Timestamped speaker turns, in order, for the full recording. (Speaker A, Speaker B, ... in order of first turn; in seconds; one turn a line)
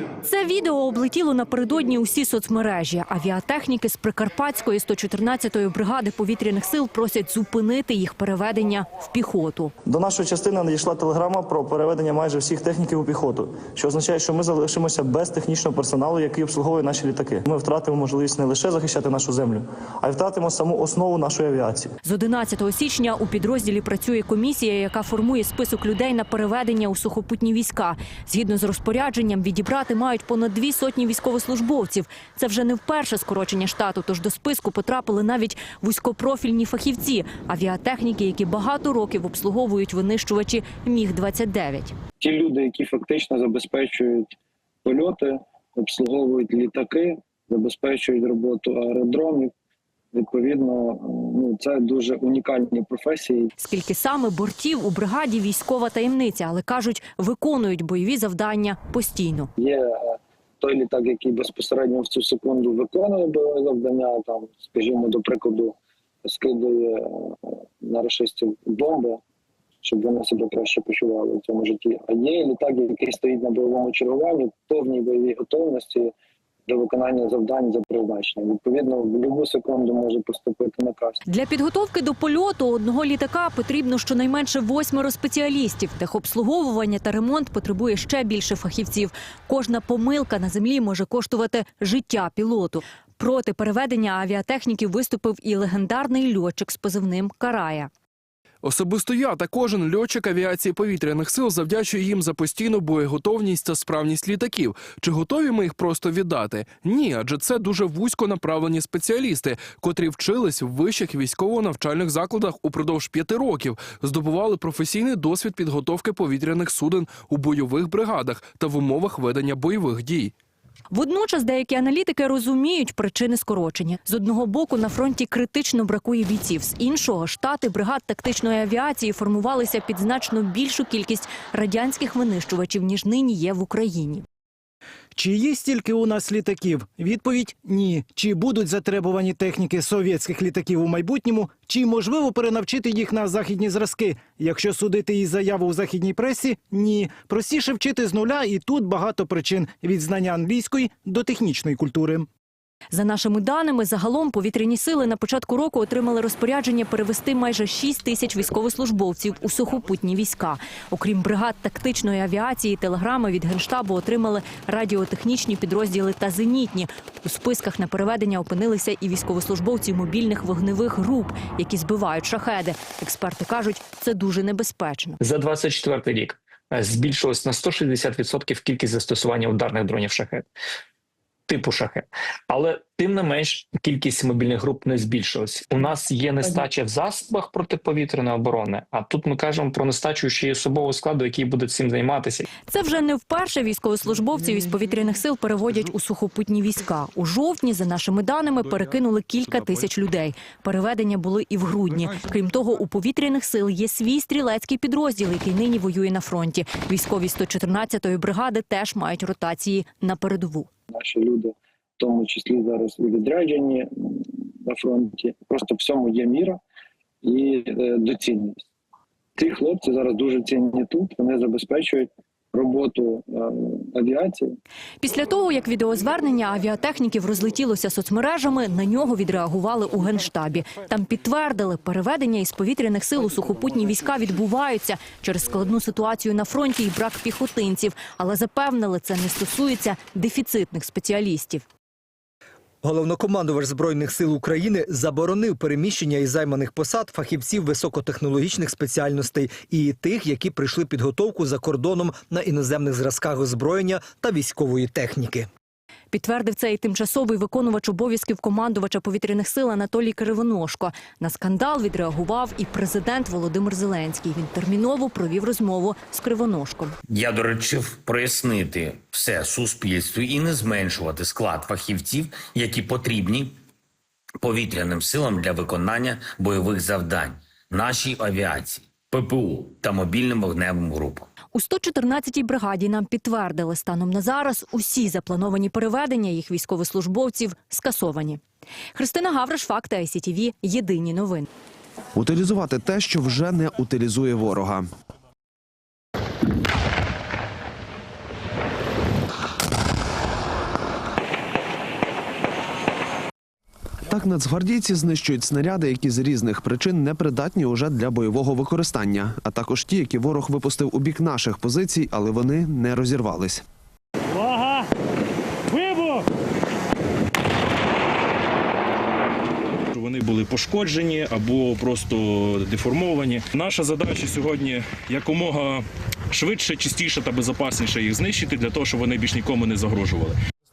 Speaker A: 0.2-9.7
Speaker B: 9.9-21.9
Speaker A: 22.0-41.9
Speaker C: 42.2-49.5
Speaker C: 50.1-53.5
Speaker A: 53.6-59.5
Speaker C: 59.6-69.2
Speaker C: 69.8-76.1
Speaker C: 76.7-81.2
Speaker A: 81.3-97.9
Speaker D: 98.6-120.3
Speaker A: 120.9-134.2
Speaker E: 135.2-152.3
Speaker A: 152.9-175.2
Speaker F: 175.2-180.5
Speaker F: 181.5-192.4
Speaker A: 192.7-210.7
Speaker C: 210.9-216.6
Speaker C: 217.2-218.6
Speaker C: 219.4-224.6
Speaker A: 225.0-241.7
Speaker G: 242.8-255.5
Speaker A: 256.1-267.0
Speaker H: 267.1-273.5
Speaker H: 274.4-281.3
Speaker A: 281.5-288.4
Speaker A: 288.9-291.5
Speaker I: 292.2-294.9
Speaker I: 304.1-313.6
Speaker J: 320.0-325.7
Speaker F: 323.6-325.8
Speaker F: 326.4-326.8
Speaker J: 326.4-330.3